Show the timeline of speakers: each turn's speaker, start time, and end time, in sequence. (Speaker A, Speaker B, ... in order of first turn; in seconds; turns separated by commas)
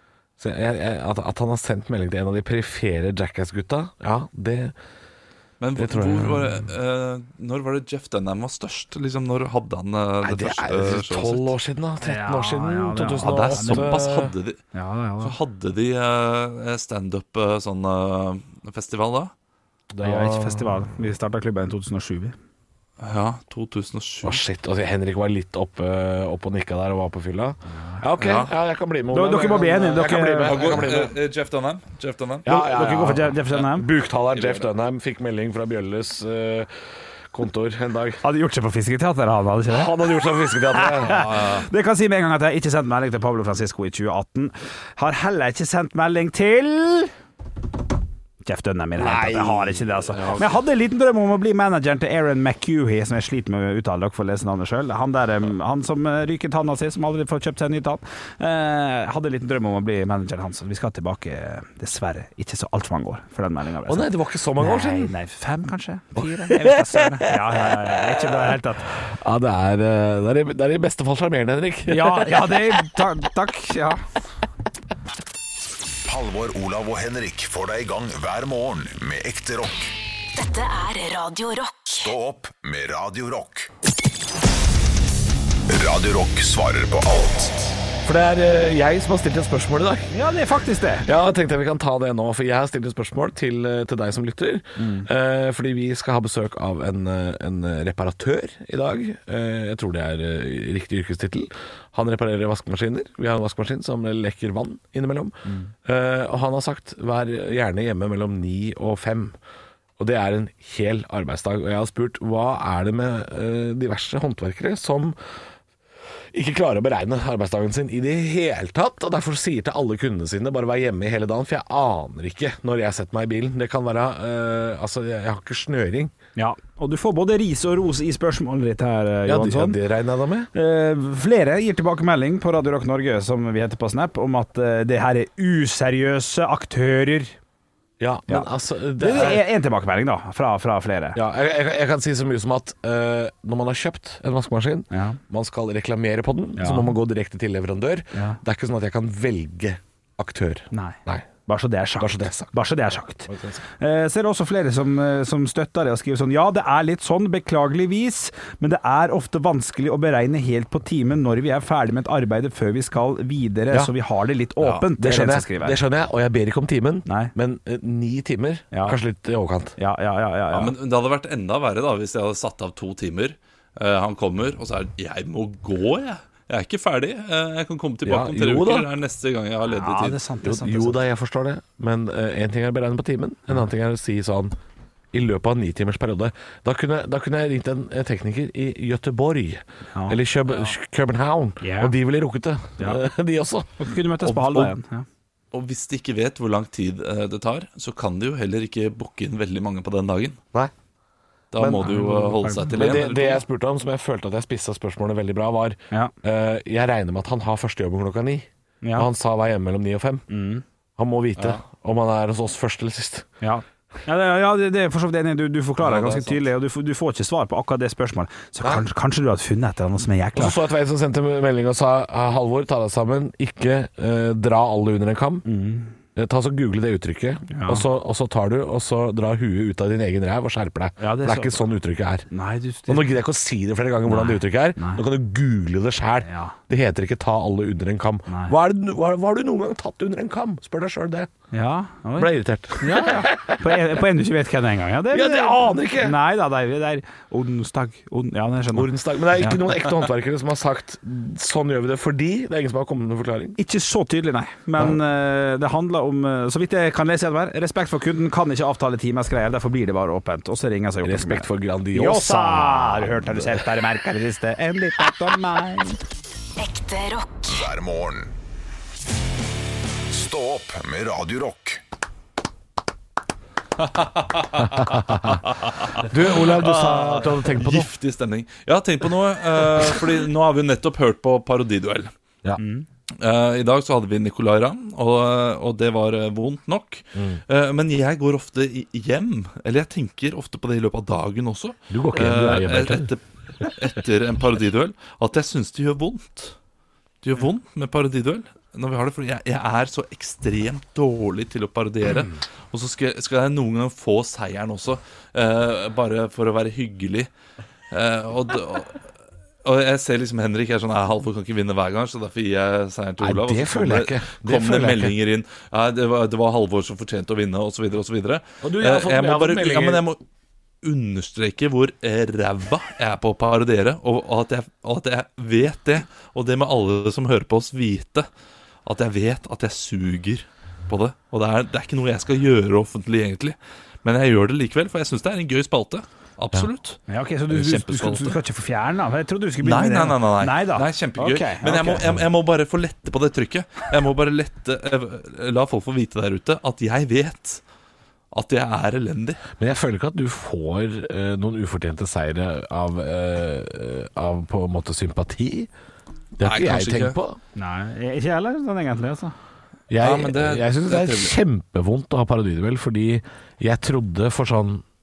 Speaker A: 0.4-4.7, Speaker B: 5.6-11.5, Speaker A: 5.8-6.6, Speaker A: 10.2-14.3, Speaker C: 12.0-13.9, Speaker B: 13.2-14.6, Speaker C: 14.7-15.3, Speaker B: 15.2-19.3, Speaker A: 19.9-20.8, Speaker C: 20.0-22.4, Speaker B: 23.0-24.4, Speaker A: 24.2-31.1, Speaker C: 27.7-28.0, Speaker B: 28.2-28.5, Speaker C: 29.1-30.8, Speaker B: 30.4-32.5, Speaker A: 32.4-38.2, Speaker C: 32.5-33.9, Speaker B: 34.3-34.6, Speaker C: 38.2-40.1, Speaker A: 39.7-41.3, Speaker C: 40.7-47.1, Speaker B: 41.1-41.7, Speaker C: 48.4-68.9, Speaker A: 49.0-50.4, Speaker A: 63.9-65.1, Speaker A: 66.2-72.8, Speaker C: 71.9-74.0, Speaker D: 76.1-79.9, Speaker E: 80.3-82.1, Speaker D: 81.9-83.7, Speaker D: 85.7-87.7, Speaker A: 88.0-90.1, Speaker C: 90.1-91.1, Speaker A: 91.0-109.4, Speaker C: 94.8-95.1, Speaker C: 105.4-105.7, Speaker A: 110.0-115.2, Speaker A: 116.3-126.1, Speaker C: 126.4-129.8, Speaker A: 129.2-130.5, Speaker C: 130.5-137.3, Speaker A: 138.0-139.4, Speaker C: 138.3-141.2, Speaker A: 141.1-151.3, Speaker C: 144.9-145.2, Speaker C: 146.6-146.9, Speaker C: 148.1-148.4, Speaker C: 150.7-165.8, Speaker A: 152.0-152.5, Speaker A: 153.3-153.6, Speaker A: 164.8-169.8, Speaker C: 167.1-167.3, Speaker C: 168.7-169.0, Speaker C: 169.8-170.7, Speaker B: 170.5-180.2, Speaker A: 178.1-178.9, Speaker C: 179.7-181.0, Speaker A: 180.4-184.6, Speaker A: 185.1-193.7, Speaker C: 189.9-190.2, Speaker C: 191.6-191.9, Speaker C: 193.8-195.1, Speaker B: 194.2-194.7, Speaker B: 195.5-200.4, Speaker B: 201.5-203.4, Speaker A: 201.6-210.2, Speaker C: 201.8-203.0, Speaker C: 208.8-209.1, Speaker C: 210.3-210.6, Speaker A: 211.0-213.3, Speaker C: 213.4-220.6, Speaker B: 215.8-216.4, Speaker A: 220.4-225.4, Speaker C: 225.4-225.9, Speaker A: 226.2-232.3, Speaker C: 227.5-227.9, Speaker C: 231.0-231.6, Speaker C: 232.3-233.1, Speaker A: 232.9-241.3, Speaker C: 234.1-235.0, Speaker C: 236.2-236.6, Speaker C: 238.3-238.5, Speaker C: 241.5-249.7, Speaker A: 242.2-244.0, Speaker A: 245.1-246.2, Speaker A: 248.7-253.6, Speaker C: 253.6-266.0, Speaker A: 261.0-263.6, Speaker E: 266.6-267.7, Speaker D: 267.5-268.3, Speaker D: 270.1-271.8, Speaker B: 273.8-282.1, Speaker A: 274.7-275.4, Speaker A: 276.0-277.9, Speaker C: 282.6-282.9, Speaker B: 283.2-296.6, Speaker A: 287.1-287.4, Speaker A: 291.9-293.1, Speaker B: 297.2-307.3, Speaker B: 307.9-309.0, Speaker B: 309.6-320.2, Speaker A: 313.2-315.2, Speaker A: 318.6-320.0, Speaker B: 320.8-328.3, Speaker B: 328.8-337.0, Speaker C: 337.1-342.0, Speaker B: 337.5-338.4, Speaker B: 339.6-347.6, Speaker B: 348.3-349.4, Speaker A: 349.6-355.7, Speaker A: 356.4-357.4, Speaker B: 356.4-357.2, Speaker C: 357.6-359.3, Speaker A: 359.9-364.8, Speaker B: 360.0-361.4